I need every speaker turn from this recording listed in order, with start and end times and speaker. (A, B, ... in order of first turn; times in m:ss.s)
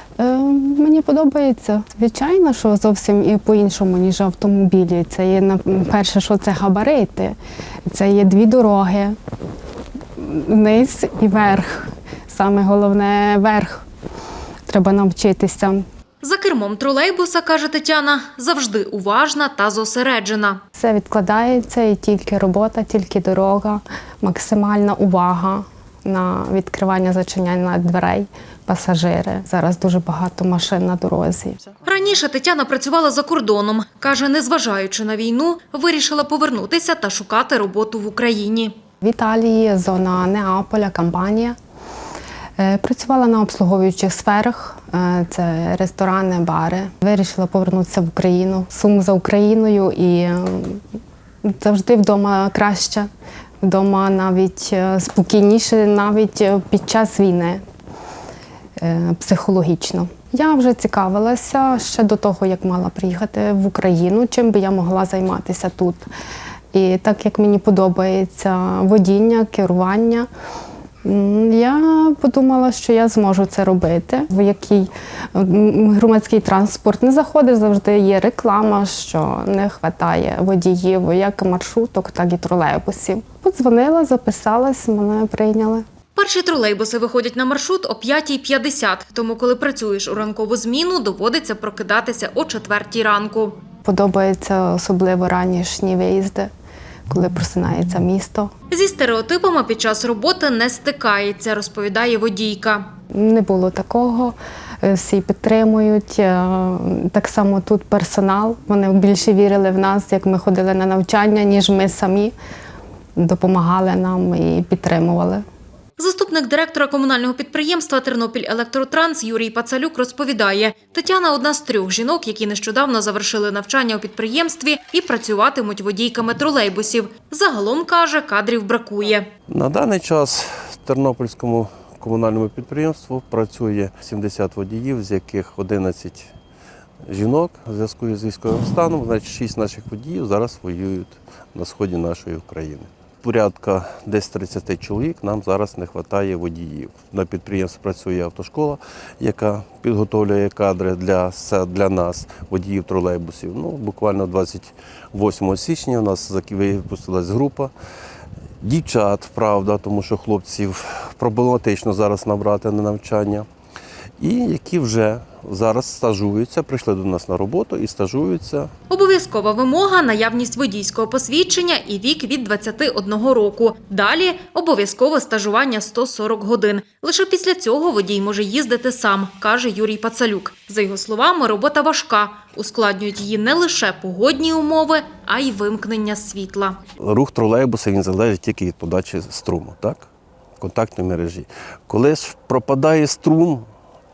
0:00.2-0:09.2 A
0:10.2-0:13.8 A
0:14.7-0:15.8 A
0:16.2-0:20.6 B
0:20.8-0:31.6 A
0:31.8-0:38.7 B
0:39.0-0:41.6 A
0:42.6-0:50.8 A
0:51.4-0:53.1 A
0:53.6-0:57.6 A
0:58.8-1:06.0 A
1:06.7-1:10.3 A
1:11.0-1:25.8 A
1:26.2-1:33.6 B
1:33.8-1:36.5 A
1:37.1-1:38.5 A
1:38.7-1:42.8 B
1:43.1-1:52.4 A
1:53.2-1:55.4 A
1:56.0-2:09.3 B
2:09.5-2:16.3 C
2:17.1-2:37.7 C
2:38.6-2:43.5 C
2:44.2-2:48.7 C
2:48.9-3:06.8 B
3:07.0-3:10.1 C
3:10.6-3:13.7 C